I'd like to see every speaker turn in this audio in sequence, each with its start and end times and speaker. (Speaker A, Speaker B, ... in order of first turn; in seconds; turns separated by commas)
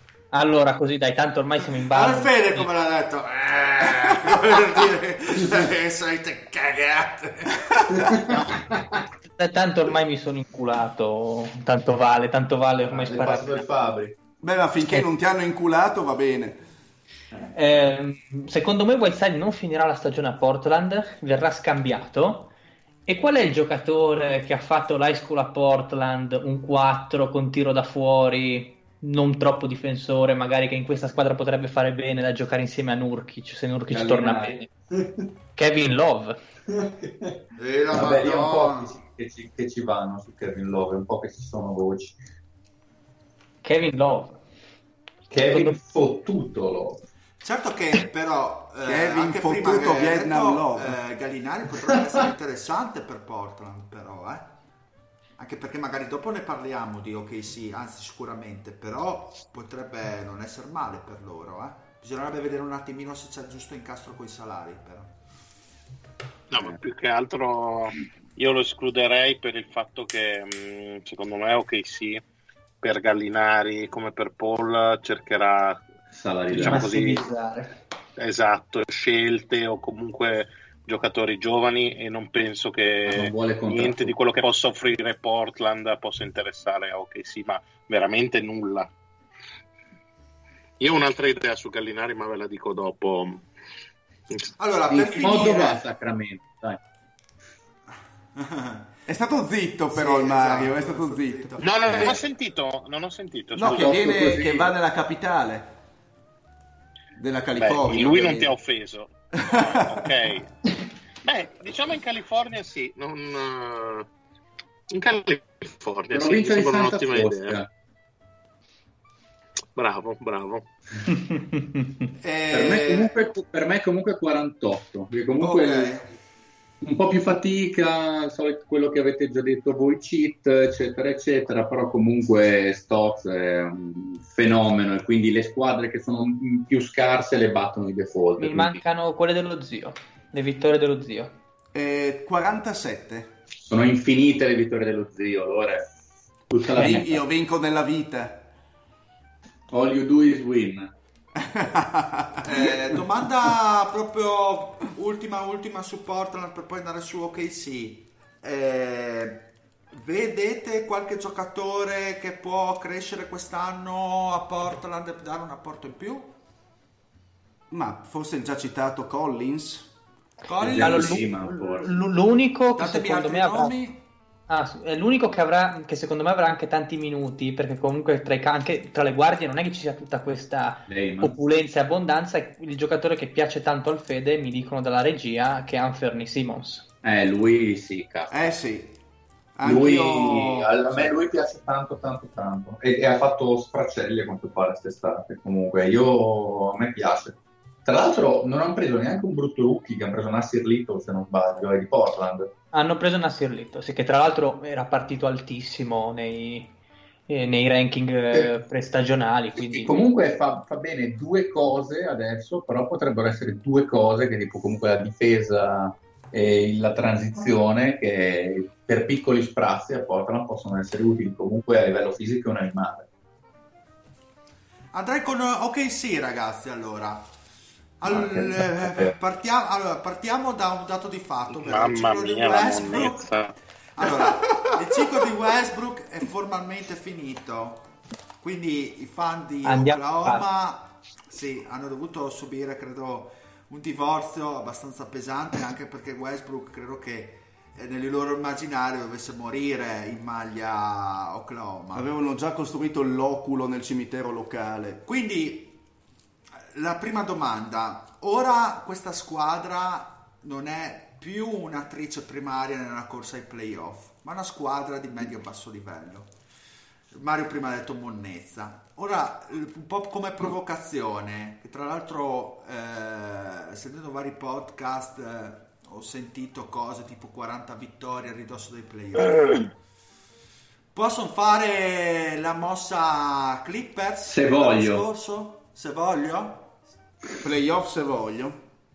Speaker A: 0.3-2.7, Speaker B: 1.9-8.4, Speaker C: 7.9-9.0, Speaker A: 9.2-13.7, Speaker C: 12.9-14.2, Speaker D: 14.4-16.6, Speaker A: 17.5-22.5, Speaker A: 23.1-34.7, Speaker C: 33.9-35.1, Speaker A: 35.5-36.4, Speaker C: 36.7-42.2, Speaker B: 37.5-39.0, Speaker A: 43.6-44.4, Speaker C: 45.3-47.0, Speaker A: 45.5-45.7, Speaker B: 47.4-54.5, Speaker D: 48.8-51.0, Speaker B: 55.4-65.1, Speaker E: 66.5-72.2, Speaker E: 72.8-75.8, Speaker C: 76.1-76.9, Speaker E: 76.5-77.3, Speaker A: 76.5-77.8, Speaker E: 78.2-88.9, Speaker C: 83.0-84.1, Speaker E: 90.8-93.4, Speaker B: 94.6-95.8, Speaker C: 94.9-96.8, Speaker B: 98.3-99.0, Speaker D: 99.1-102.0, Speaker B: 99.9-102.2, Speaker E: 101.6-104.1, Speaker D: 103.5-105.7, Speaker C: 103.6-104.7, Speaker D: 107.2-108.5, Speaker E: 107.6-110.5, Speaker D: 109.3-110.1, Speaker E: 111.2-114.1, Speaker E: 114.9-117.6, Speaker C: 116.1-117.7, Speaker E: 119.8-120.7, Speaker A: 121.3-121.6, Speaker B: 122.2-123.2, Speaker C: 122.5-126.0, Speaker B: 125.4-126.1, Speaker C: 126.8-138.8, Speaker A: 138.4-141.3, Speaker D: 141.7-143.4, Speaker C: 143.6-145.8, Speaker C: 146.5-147.2, Speaker D: 146.7-148.5, Speaker C: 149.7-150.9, Speaker D: 151.4-152.5, Speaker B: 152.4-166.3, Speaker D: 167.7-169.9, Speaker B: 170.4-171.2, Speaker C: 170.6-171.9, Speaker A: 170.7-173.7, Speaker B: 172.7-174.0, Speaker A: 174.5-186.9, Speaker C: 180.9-181.4, Speaker C: 187.0-188.3, Speaker D: 188.3-189.0, Speaker D: 189.5-191.1, Speaker C: 189.6-202.5, Speaker A: 202.7-206.7, Speaker A: 207.3-209.9, Speaker C: 209.5-223.1, Speaker B: 224.9-227.3, Speaker B: 228.0-233.3, Speaker C: 228.0-229.2, Speaker E: 231.5-233.6, Speaker B: 233.9-237.9, Speaker B: 238.4-252.1, Speaker A: 239.6-240.4, Speaker D: 251.9-255.0, Speaker B: 255.0-255.8, Speaker B: 256.7-266.3, Speaker B: 267.1-279.7, Speaker B: 280.9-286.8, Speaker C: 284.2-285.1, Speaker D: 287.4-288.6